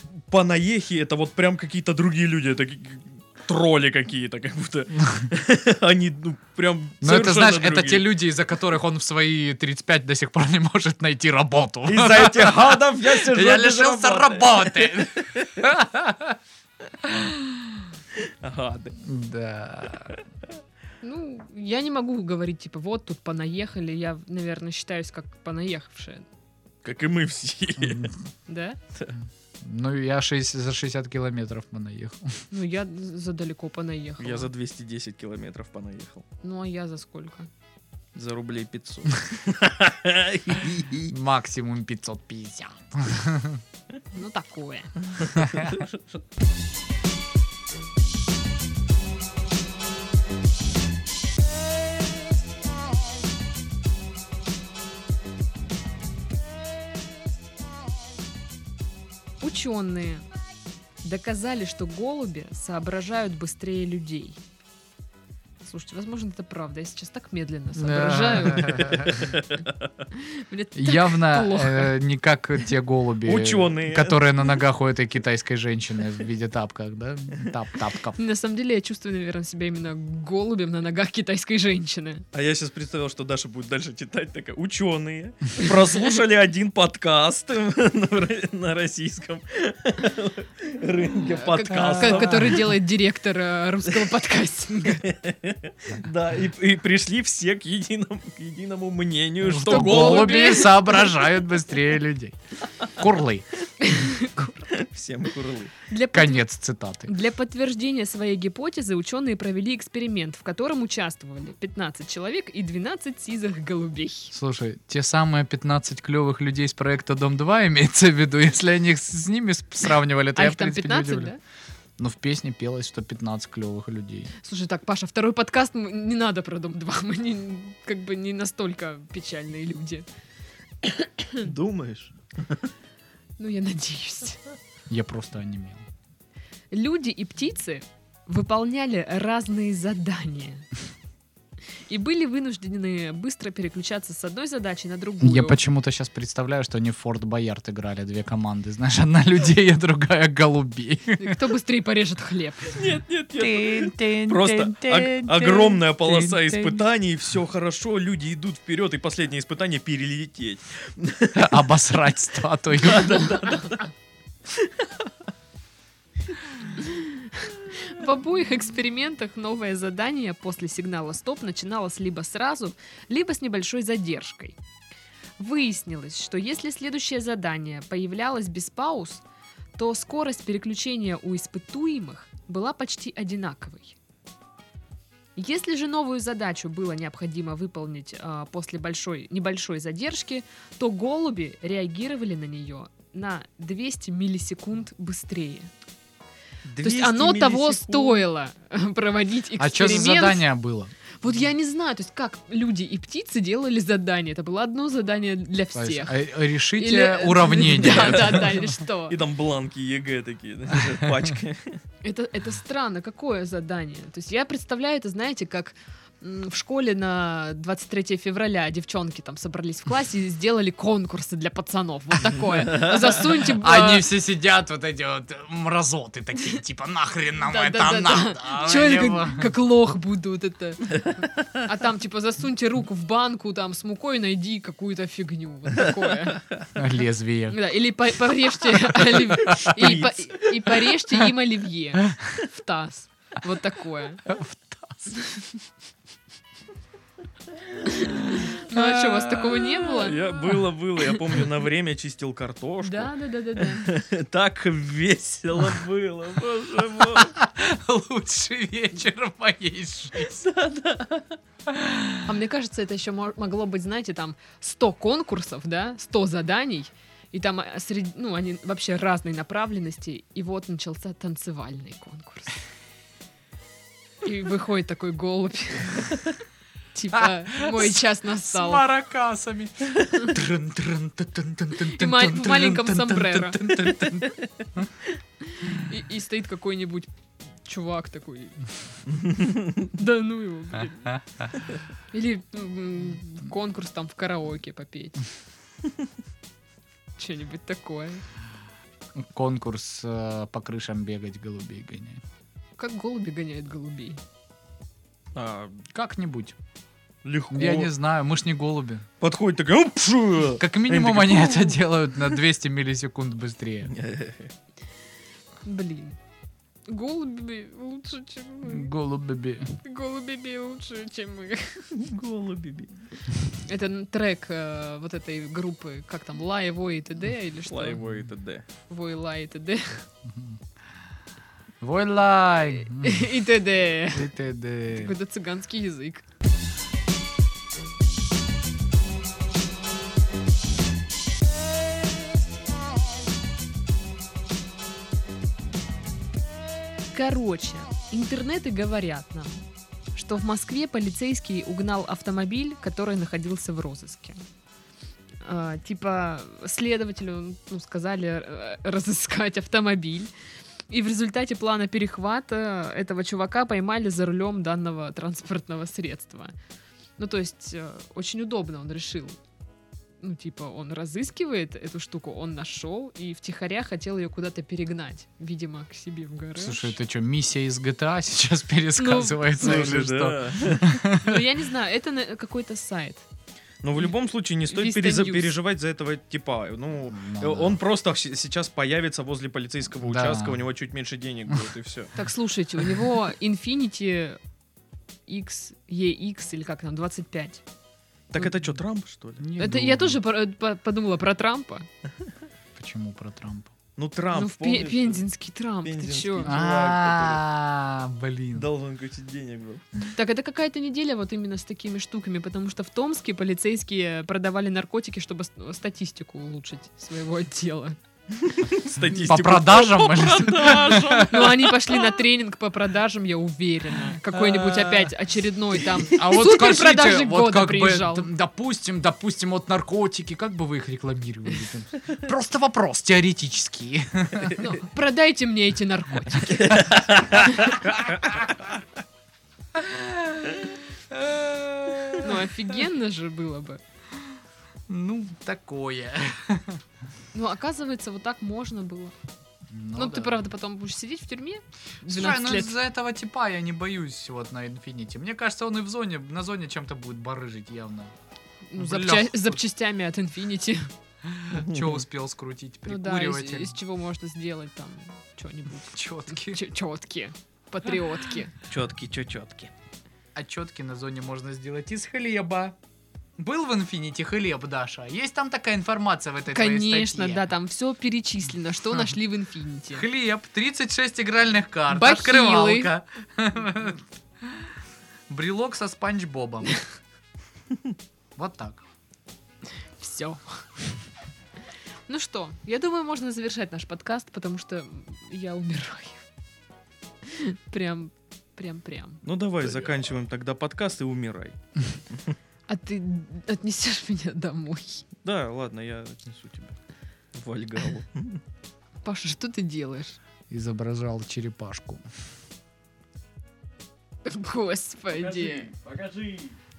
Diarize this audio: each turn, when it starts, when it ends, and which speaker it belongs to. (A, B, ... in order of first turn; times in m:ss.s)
0:00.3-0:08.0 A
0:05.0-0:05.3 B
0:07.0-0:16.4 B
0:11.8-0:15.6 A
0:17.0-0:17.9 B
0:18.2-0:19.0 A
0:19.0-0:20.1 B
0:21.0-0:26.2 C
0:26.8-0:28.1 A
0:27.8-0:28.1 B
0:28.5-0:28.8 C
0:29.6-0:32.4 B
0:32.5-0:34.5 C
0:34.2-0:36.2 A
0:36.4-0:37.5 C
0:38.1-0:41.1 A
0:41.1-0:43.6 B
0:44.1-0:44.9 C
0:45.3-0:46.0 A
0:45.4-0:45.8 B
0:59.4-1:00.2 C
1:01.0-1:04.4 C
1:05.6-1:09.3 C
1:07.8-1:09.4 B
1:09.0-1:09.9 A
1:10.1-1:12.0 C
1:10.8-1:18.2 B
1:13.2-1:14.2 A
1:18.2-1:22.2 C
1:22.3-1:32.7 A
1:31.3-1:35.1 C
1:31.7-1:32.6 B
1:34.9-1:40.7 A
1:39.4-1:42.4 B
1:39.6-1:41.1 C
1:42.9-1:43.5 B
1:43.8-1:44.8 C
1:44.7-1:45.7 A
1:45.9-1:46.4 C
1:46.1-1:47.1 B
1:47.0-1:54.3 C
1:54.3-2:01.3 B
2:00.3-2:01.4 C
2:02.0-2:04.3 B
2:04.4-2:10.1 C
2:11.4-2:12.7 A
2:13.4-2:14.4 C
2:14.9-2:15.8 B
2:16.7-2:20.7 C
2:21.9-2:25.6 C
2:25.2-2:31.4 B
2:31.2-2:32.8 C
2:32.7-2:41.6 A
2:33.4-2:36.8 B
2:41.3-2:43.5 B
2:42.8-2:43.9 A
2:44.6-2:44.9 A
2:46.7-2:54.6 C
2:55.4-2:59.2 C
2:59.8-3:04.0 C
3:05.4-3:15.7 C
3:16.6-3:18.2 A
3:16.8-3:20.4 C
3:19.6-3:20.9 B
3:21.2-3:29.2 C
3:25.7-3:28.7 B
3:27.8-3:28.5 A
3:29.1-3:31.8 A
3:32.0-3:44.1 C
3:43.5-3:49.5 B
3:47.4-3:56.4 C
3:56.7-3:57.6 B
3:57.5-4:04.2 C
3:59.7-4:00.7 A
4:04.3-4:05.1 B
4:05.1-4:05.5 C
4:07.8-4:10.3 C
4:08.7-4:10.1 B
4:10.0-4:17.4 A
4:12.8-4:13.9 C
4:17.1-4:20.3 B
4:20.2-4:21.3 A
4:21.7-4:22.2 B
4:22.2-4:32.6 C
4:34.2-4:36.4 C
4:36.9-4:38.8 C
4:37.1-4:44.9 B
4:41.9-4:44.0 C
4:45.4-4:47.1 C
4:47.6-4:48.6 C
4:49.2-4:49.8 A
4:49.9-4:51.2 C
4:51.1-4:51.5 B
4:52.1-4:55.3 C
4:57.2-4:58.2 C
4:59.1-5:02.2 B
5:02.8-5:04.2 C
5:05.3-5:05.8 A
5:05.9-5:06.6 B
5:07.2-5:07.9 A
5:07.5-5:09.0 B
5:09.2-5:11.8 A
5:10.6-5:13.9 B
5:13.9-5:14.5 A
5:15.6-5:16.2 C
5:16.9-5:18.9 C
5:18.7-5:19.8 B
5:19.8-5:21.9 C
5:21.9-5:22.9 A
5:23.6-5:28.0 C
5:27.7-5:28.6 A
5:28.9-5:30.1 C
5:30.3-5:30.6 B
5:31.8-5:33.4 B
5:32.9-5:34.3 C
5:34.1-5:35.1 B
5:34.9-5:36.2 C
5:47.1-5:54.4 C
5:55.4-6:00.3 C
6:00.9-6:06.5 C
6:07.2-6:09.4 C
6:10.2-6:17.0 C
6:16.6-6:21.5 B
6:19.0-6:20.0 C
6:19.6-6:20.9 A
6:21.1-6:23.2 C
6:23.8-6:32.1 A
6:24.7-6:25.5 C
6:27.1-6:27.8 B
6:30.0-6:30.6 B
6:32.1-6:34.4 C
6:35.3-6:37.6 C
6:38.3-6:39.4 A
6:39.4-6:40.2 B
6:39.6-6:41.8 C
6:42.8-6:43.7 B
6:44.0-6:45.2 A
6:44.3-6:46.5 C
6:45.8-6:47.4 A
6:46.4-6:48.7 B
6:48.5-6:50.0 A
6:50.1-6:58.0 C
6:58.4-7:02.0 A
6:59.1-7:01.4 B
7:01.3-7:08.3 C
7:04.3-7:05.1 B
7:05.9-7:14.6 B
7:14.6-7:16.9 C
7:16.5-7:18.3 A
7:17.4-7:17.7 C
7:17.8-7:18.7 B
7:19.7-7:22.5 B
7:22.2-7:23.8 C
7:24.9-7:26.8 B
7:27.3-7:29.1 C
7:29.7-7:30.4 B
7:29.9-7:32.7 C
7:32.0-7:38.1 B
7:38.7-7:40.9 C
7:38.8-7:39.6 B
7:41.2-7:43.8 B
7:41.5-7:42.0 A
7:42.9-7:48.5 C
7:45.9-7:46.6 B
7:48.7-7:49.7 A
7:50.3-7:52.8 B
7:53.4-7:57.4 B
7:56.5-8:00.0 C
7:59.9-8:04.7 B
8:01.9-8:02.9 C
8:05.3-8:06.8 B
8:08.4-8:08.8 B
8:10.0-8:10.9 C
8:12.1-8:16.2 C
8:17.2-8:19.2 C
8:19.2-8:21.6 A
8:22.7-8:25.0 C
8:25.2-8:26.7 A
8:27.3-8:28.4 A
8:29.0-8:30.2 C
8:30.5-8:32.0 B
8:34.2-8:35.7 C
8:35.1-8:36.5 A